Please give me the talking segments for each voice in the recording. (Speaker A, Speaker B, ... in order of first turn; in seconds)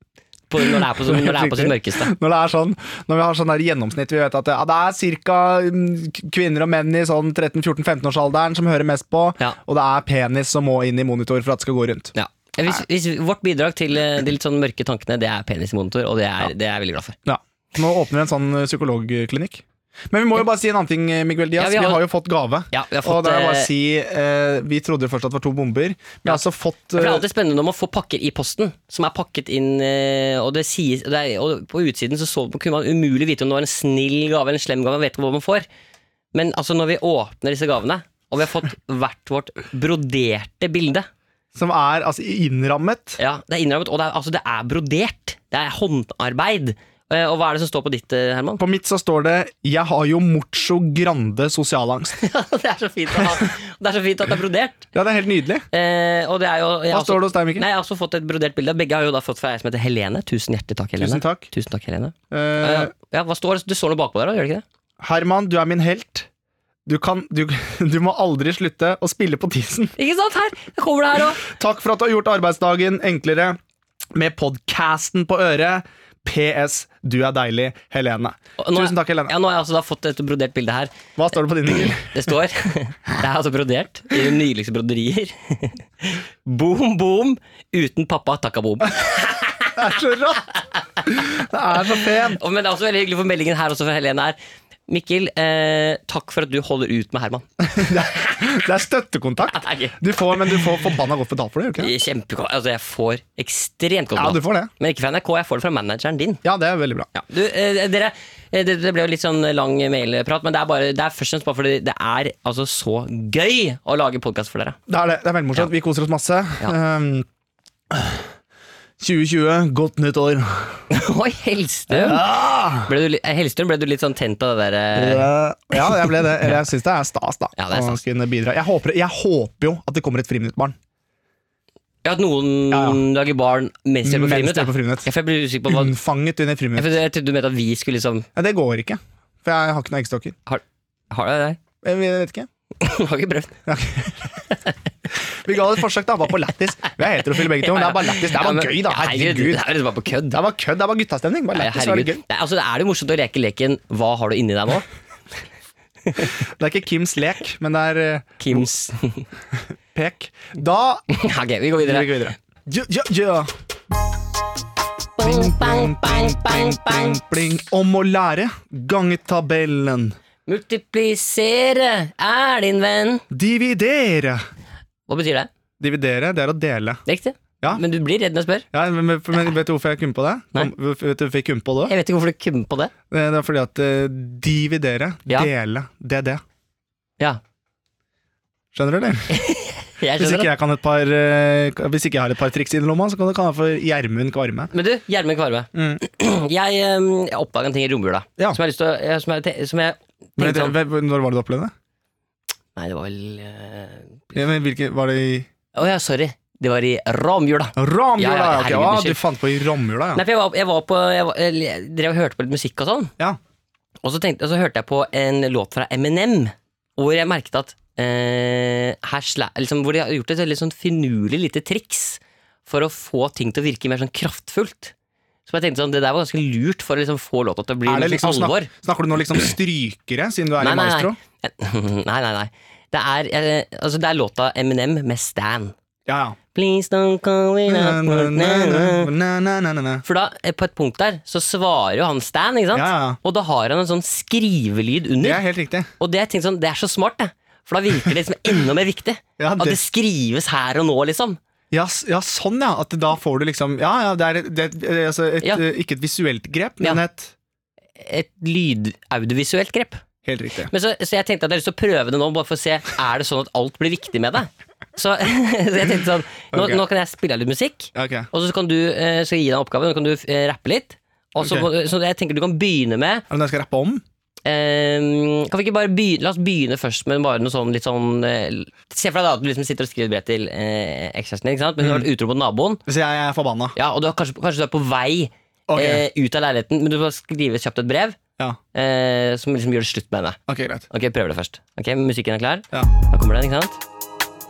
Speaker A: 0.5-2.1, 12.1-17.2, 21.6-22.0, 22.7-23.7, 26.9-35.7, 36.3-41.1, 43.2-48.6, 52.2-54.9, 55.7-64.6, 70.0-71.4, 78.6-81.0, 81.8-89.9, 92.1-94.4, 94.9-98.4, 99.5-100.6, 101.8-106.4, 107.1-114.8, 120.9-126.4, 127.5-128.0, 132.0-135.9, 136.7-138.3, 140.5-141.6, 142.8-143.6, 147.5-150.4, 151.5-154.8, 156.1-156.3, 158.4-159.2, 161.1-162.3, 165.2-167.2, 170.5-173.2, 175.1-175.5, 177.1-178.6, 181.8-182.9, 189.3-190.5, 194.7-200.8, 202.8-204.2, 205.7-209.2, 210.1-213.1, 214.0-224.9, 225.5-228.7, 230.6-235.7, 236.5-239.1, 240.0-245.4, 246.0-251.4, 258.0-260.0, 260.7-273.2, 274.4-282.8, 283.8-288.2, 288.7-290.4, 290.9-293.8
Speaker B: 0.6-12.1, 17.2-27.2, 41.5-43.2, 48.6-52.2, 54.9-55.6, 56.9-57.7, 61.0-61.5, 62.3-62.9, 65.0-66.3, 66.8-69.9, 71.4-73.6, 74.1-79.3, 81.2-82.1, 89.8-90.5, 91.0-92.4, 97.7-101.9, 104.1-104.7, 106.4-107.1, 114.9-117.3, 117.9-118.3, 119.0-120.8, 121.9-122.9, 124.9-130.8, 132.7-133.0, 134.0-135.1, 135.7-136.9, 138.3-140.3, 141.8-142.5, 143.7-144.4, 145.3-149.6, 150.3-152.2, 156.2-158.7, 159.9-161.0, 161.8-163.5, 165.2-170.2, 173.3-174.4, 175.8-177.0, 178.7-181.9, 183.1-186.4, 188.7-189.3, 190.2-194.7, 195.7-196.0, 200.4-201.7, 204.3-205.5, 207.8-210.2, 227.8-231.2, 236.1-236.3, 237.7-240.0, 242.7-243.2, 245.2-245.9, 249.4-249.8, 251.7-257.3, 260.2-260.7, 266.5-266.8, 267.9-268.3, 271.4-271.7, 273.3-274.0, 281.8-282.1, 282.9-283.8, 285.7-286.0, 290.5-290.9